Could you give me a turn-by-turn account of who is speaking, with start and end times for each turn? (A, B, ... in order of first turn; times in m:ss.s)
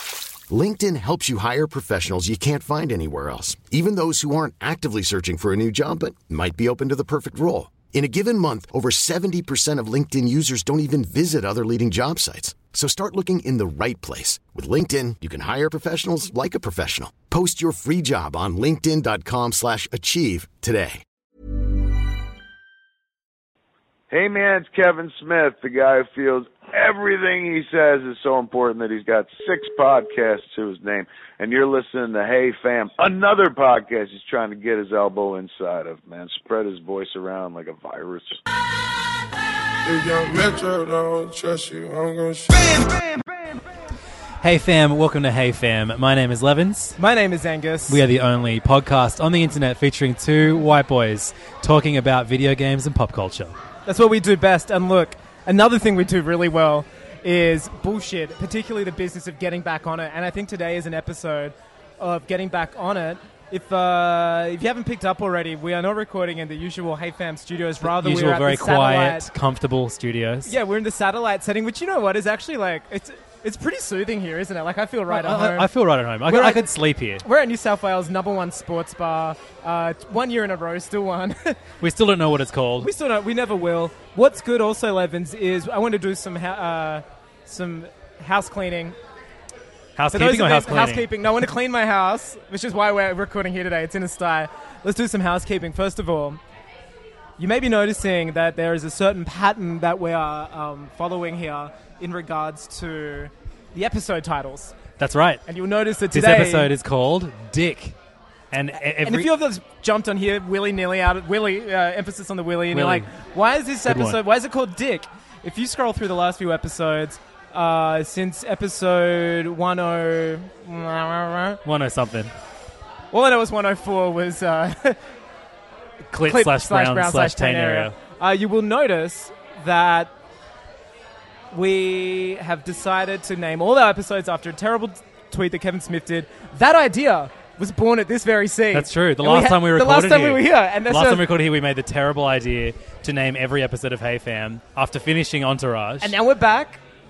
0:00.5-0:21.0 A
0:24.1-0:38.4 B
0:39.8-0:43.1 C
0:44.4-0:47.0 D
0:47.0-0:48.0 E
0:47.9-0:53.5 D
0:53.9-1:09.3 E
1:07.8-1:10.5 D
1:10.4-1:15.7 E
1:15.1-1:17.2 D
1:16.2-1:16.7 E
1:17.2-1:21.6 E
1:21.8-1:22.9 D
1:22.8-1:29.0 E
1:30.0-1:31.1 D
1:30.1-1:36.4 E
1:37.4-1:44.7 E
1:45.0-1:45.4 D
1:45.5-1:46.7 E
1:46.1-1:47.9 D
1:48.5-1:49.3 D
1:49.0-2:01.6 E
1:52.7-1:53.1 D
1:53.8-1:54.2 D
2:01.6-2:02.3 D
2:03.1-2:05.0 E
2:06.1-2:07.9 D
2:06.2-2:10.1 E
2:11.5-2:21.2 E
2:18.7-2:26.2 D
2:26.0-2:26.8 E